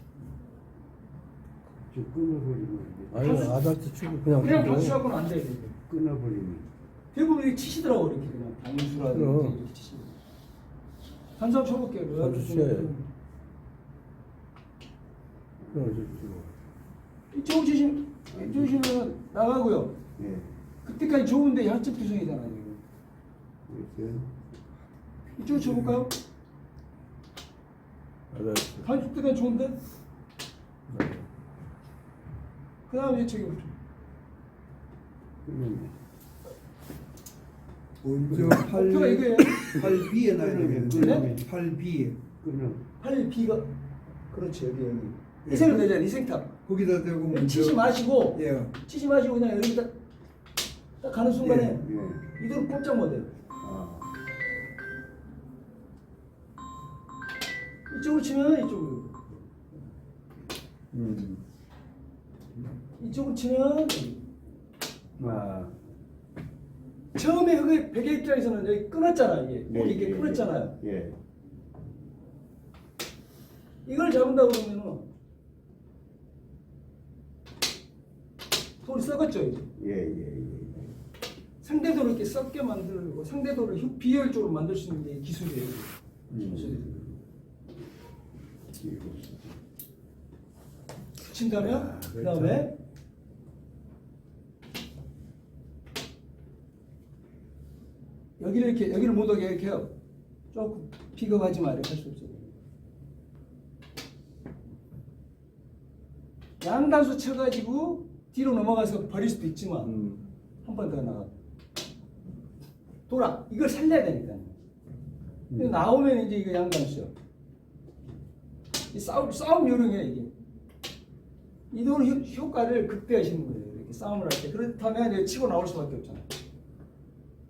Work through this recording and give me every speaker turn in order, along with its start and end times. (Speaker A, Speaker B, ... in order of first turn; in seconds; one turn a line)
Speaker A: 1.8-3.4
Speaker B: 3.1-5.0
Speaker C: 3.2-3.6
Speaker C: 4.4-5.8
Speaker A: 5.9-6.7
Speaker C: 7.1-10.2
Speaker B: 9.1-9.6
Speaker C: 11.4-13.1
Speaker B: 12.2-12.9
Speaker B: 15.7-16.6
Speaker C: 17.3-20.0
Speaker A: 18.4-18.7
Speaker A: 20.2-20.6
Speaker C: 20.9-22.8
Speaker A: 23.7-24.3
Speaker C: 25.4-26.1
Speaker B: 28.3-28.9
Speaker C: 28.8-29.8
Speaker B: 30.9-31.3
Speaker C: 32.9-33.7
Speaker A: 35.4-36.0
Speaker D: 38.0-42.2
Speaker A: 38.2-38.7
Speaker C: 38.7-39.8
Speaker A: 39.8-41.3
Speaker C: 40.9-41.3
Speaker A: 42.4-42.8
Speaker C: 43.0-43.7
Speaker C: 44.3-46.5
Speaker D: 45.5-46.0
Speaker D: 46.6-48.7
Speaker C: 47.3-49.9
Speaker C: 51.0-53.3
Speaker A: 51.4-52.3
Speaker A: 53.6-54.1
Speaker C: 57.9-59.2
Speaker A: 60.9-61.5
Speaker C: 63.0-64.2
Speaker A: 65.2-65.8
Speaker C: 67.2-70.8
Speaker A: 69.7-71.2
Speaker C: 73.9-75.1
Speaker C: 78.8-79.7
Speaker A: 79.8-80.9
Speaker C: 81.6-87.0
Speaker A: 86.3-87.2
Speaker A: 88.7-89.6
Speaker C: 91.3-92.8
Speaker B: 91.6-92.7
Speaker C: 98.4-99.9
Speaker C: 100.5-102.6
Speaker C: 106.6-109.9
Speaker B: 109.8-110.3
Speaker C: 110.7-111.3
Speaker C: 113.1-114.6
Speaker A: 115.5-115.8
Speaker C: 115.5-117.1
Speaker C: 118.9-120.3
Speaker C: 121.7-126.3